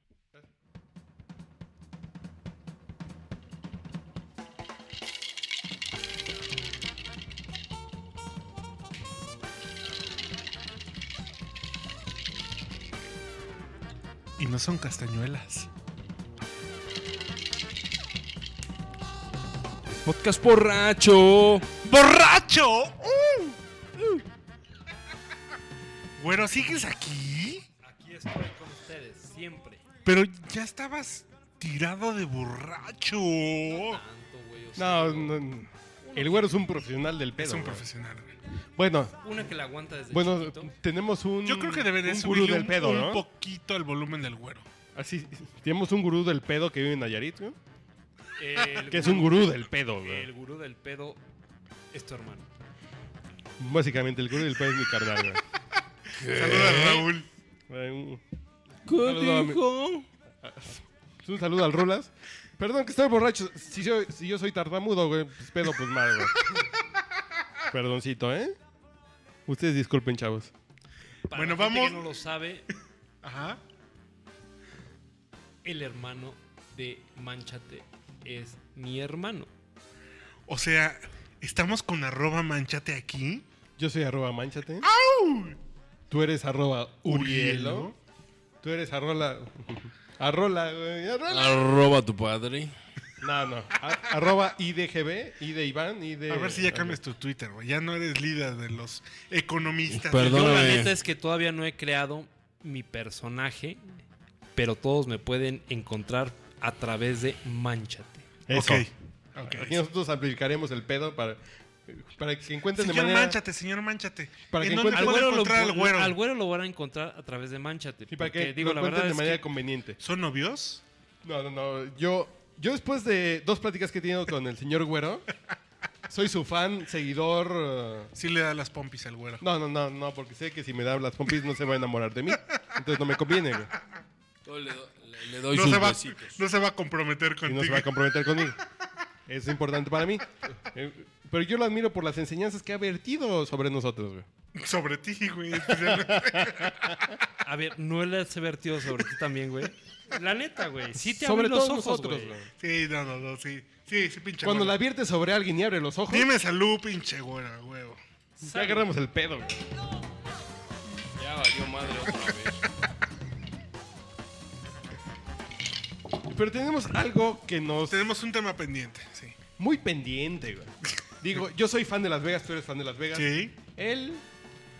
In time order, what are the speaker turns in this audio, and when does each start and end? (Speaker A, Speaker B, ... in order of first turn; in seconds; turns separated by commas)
Speaker A: 14.4-15.7, Speaker B: 20.0-21.7, Speaker A: 21.8-23.6, Speaker A: 26.2-27.6, Speaker C: 27.8-29.8, Speaker A: 30.0-34.0, Speaker C: 33.7-35.4, Speaker D: 34.8-37.8, Speaker C: 36.0-36.5, Speaker A: 37.4-38.3, Speaker D: 38.8-39.1, Speaker C: 39.2-40.7, Speaker D: 40.1-43.2, Speaker A: 41.4-44.6, Speaker D: 44.9-47.6, Speaker C: 48.4-51.2, Speaker D: 48.9-50.3, Speaker C: 51.9-52.5, Speaker D: 53.6-55.4, Speaker B: 56.1-57.1, Speaker A: 56.3-57.3, Speaker D: 57.7-58.2, Speaker B: 58.9-60.0, Speaker D: 59.0-59.6, Speaker D: 60.4-66.3, Speaker D: 67.7-68.5, Speaker D: 69.5-70.5, Speaker C: 71.3-72.7, Speaker A: 71.3-72.0, Speaker A: 73.2-73.6, Speaker C: 75.6-79.5, Speaker A: 80.5-83.4, Speaker D: 83.8-84.9, Speaker A: 84.8-85.6, Speaker D: 86.1-87.9, Speaker A: 87.0-87.9, Speaker D: 88.6-91.7, Speaker B: 91.3-92.7, Speaker D: 93.2-97.0, Speaker A: 96.3-100.9, Speaker B: 99.9-100.9, Speaker C: 100.2-104.0, Speaker C: 104.5-108.3, Speaker D: 108.5-108.9, Speaker A: 108.5-109.8, Speaker D: 109.4-113.4, Speaker A: 112.8-116.2, Speaker D: 114.5-115.3, Speaker C: 114.9-119.4, Speaker D: 118.1-120.0, Speaker A: 120.0-120.8, Speaker D: 121.2-125.2, Speaker D: 126.1-128.1, Speaker A: 128.1-129.4, Speaker D: 129.4-133.7, Speaker B: 134.4-136.4, Speaker A: 135.5-137.9, Speaker D: 137.4-138.6, Speaker D: 139.3-144.3, Speaker A: 144.6-147.2, Speaker D: 145.7-146.5, Speaker C: 147.4-152.3, Speaker D: 151.0-152.5, Speaker A: 152.6-154.8, Speaker D: 154.4-156.3, Speaker A: 156.1-158.0, Speaker C: 158.4-158.8, Speaker D: 158.4-159.6, Speaker B: 161.2-162.6, Speaker D: 166.3-168.0, Speaker A: 167.9-169.4, Speaker D: 169.6-174.2, Speaker A: 173.1-173.5